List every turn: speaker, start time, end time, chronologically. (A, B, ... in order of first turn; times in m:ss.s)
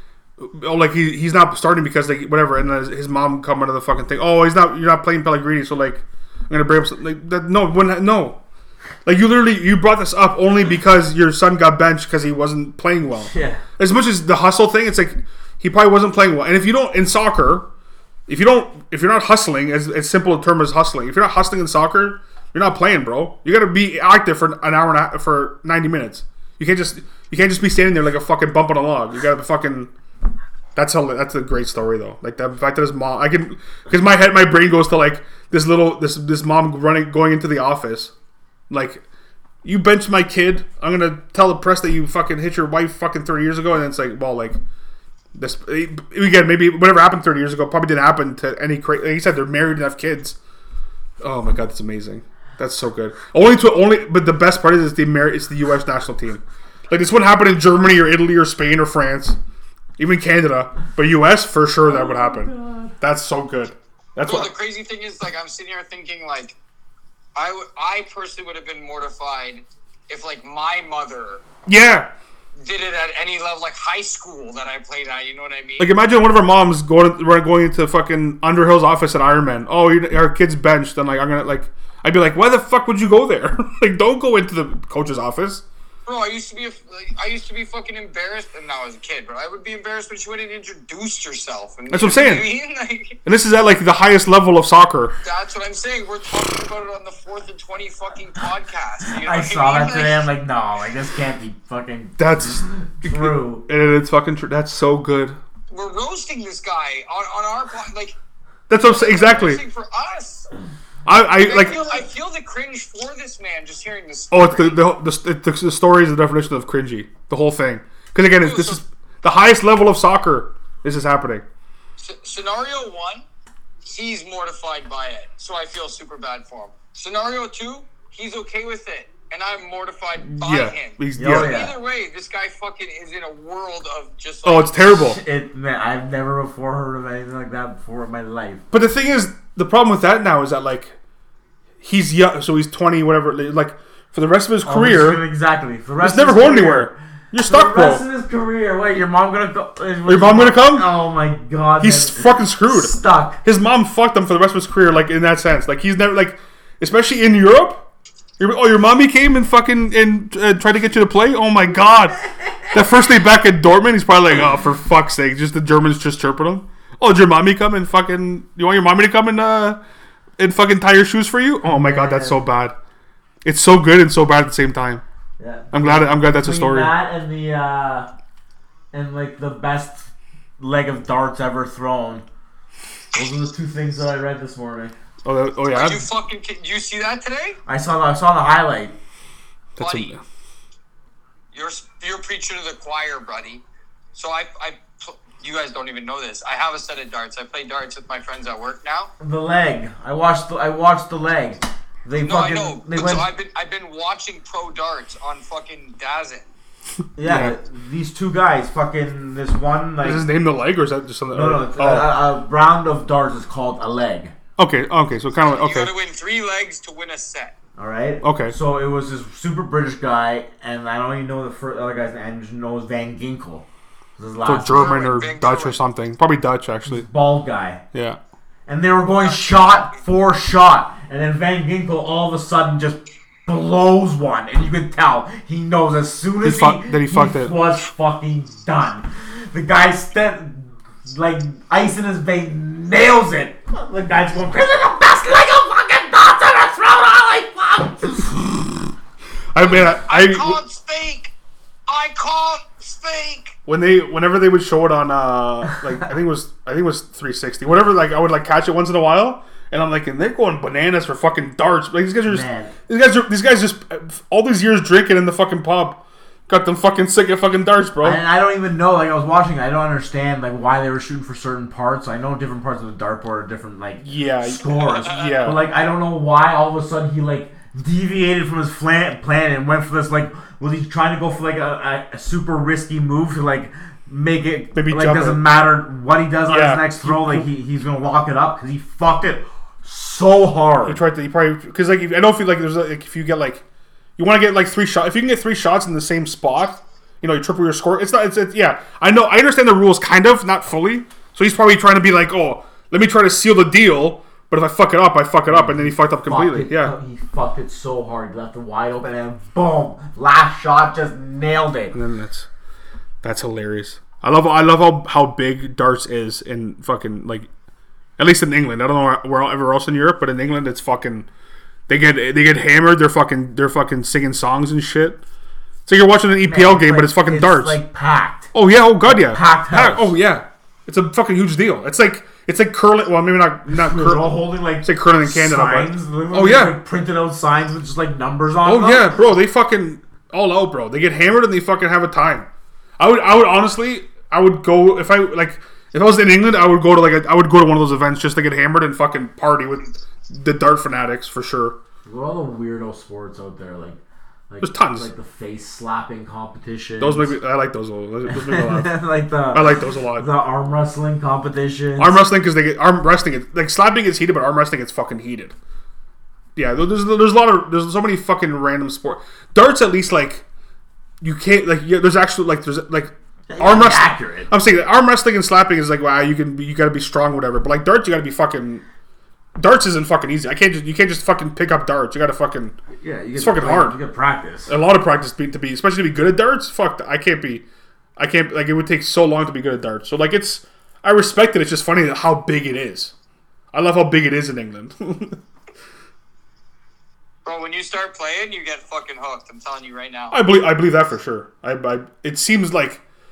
0:00.4-0:08.4 A
0:09.0-0:17.7 A
0:13.3-0:13.6 B
0:18.3-0:29.9 A
0:30.8-0:38.1 A
0:38.7-0:39.0 A
0:39.6-0:44.6 A
0:45.4-0:50.4 A
0:51.2-0:59.4 A
1:00.0-1:04.5 A
1:01.8-1:03.0 B
1:04.2-1:06.6 C
1:07.4-1:11.4 C
1:11.7-1:12.1 A
1:12.6-1:15.9 C
1:15.8-1:25.6 A
1:26.1-1:33.2 C
1:31.9-1:32.5 A
1:33.2-1:35.2 A
1:35.2-1:40.3 C
1:39.2-1:43.6 B
1:42.2-1:45.4 A
1:45.7-1:48.2 C
1:48.7-1:49.6 A
1:48.8-1:50.5 C
1:51.0-1:51.8 A
1:51.3-1:54.8 C
1:54.3-2:01.4 A
1:58.4-1:58.8 C
2:02.0-2:03.2 C
2:03.8-2:14.8 C
2:10.2-2:11.6 A
2:11.2-2:11.8 B
2:14.4-2:15.2 A
2:14.9-2:18.6 B
2:18.7-2:21.0 A
2:21.8-2:25.2 A
2:24.6-2:33.4 B
2:26.0-2:28.0 A
2:30.1-2:30.9 A
2:31.8-2:37.9 A
2:38.4-2:49.8 A
2:50.4-2:52.8 A
2:51.6-2:52.4 B
2:53.4-2:55.0 A
2:55.4-2:58.1 B
2:55.7-2:56.9 A
2:58.9-3:02.2 B
3:03.1-3:04.9 B
3:05.2-3:06.0 A
3:05.7-3:07.6 C
3:07.7-3:08.9 B
3:09.8-3:10.2 A
3:09.8-3:10.2 C
3:11.5-3:13.6 C
3:14.1-3:19.1 C
3:19.2-3:23.3 B
3:22.2-3:26.5 C
3:27.2-3:30.3 B
3:27.2-3:27.6 A
3:30.0-3:32.1 A
3:31.3-3:34.4 B
3:34.6-3:35.9 A
3:35.4-3:37.6 C
3:37.8-3:43.6 B
3:38.2-3:38.6 A
3:44.2-3:44.9 B
3:44.4-3:47.1 A
3:44.7-3:45.8 C
3:46.9-3:47.8 B
3:47.9-3:48.2 A
3:48.7-4:08.5 B
3:49.2-3:50.0 C
3:56.4-3:57.6 A
4:09.5-4:10.6 A
4:09.6-4:11.3 C
4:11.9-4:13.6 C
4:13.7-4:28.2 A
4:22.3-4:22.7 B
4:28.0-4:51.0 B
4:34.0-4:35.6 A
4:34.7-4:35.4 C
4:44.8-4:45.4 A
4:46.5-4:47.5 A
4:50.8-4:53.6 A
4:54.2-5:06.9 A
5:05.5-5:12.0 B
5:11.9-5:12.5 A
5:13.2-5:17.5 A
5:18.2-5:21.3 A
5:21.9-5:25.2 A
5:25.9-5:27.8 A
5:26.4-5:28.5 B
5:28.5-5:36.8 A
5:29.0-5:30.2 B
5:33.7-5:39.2 B
5:38.6-5:42.5 A
5:43.0-5:51.8 A
5:52.1-5:54.0 B
5:54.5-5:57.4 B
5:54.6-5:55.1 A
5:57.0-5:58.9 A
5:58.3-6:02.2 B
5:59.5-6:00.3 A
6:02.0-6:05.6 A
6:06.6-6:10.4 A
6:11.2-6:18.8 A
6:13.5-6:14.5 B
6:19.6-6:22.8 A
6:23.0-6:24.8 B
6:23.4-6:24.0 A
6:24.7-6:27.6 A
6:28.2-6:33.1 A
6:33.7-6:35.4 A
6:37.4-6:40.4 C
6:40.3-6:43.0 A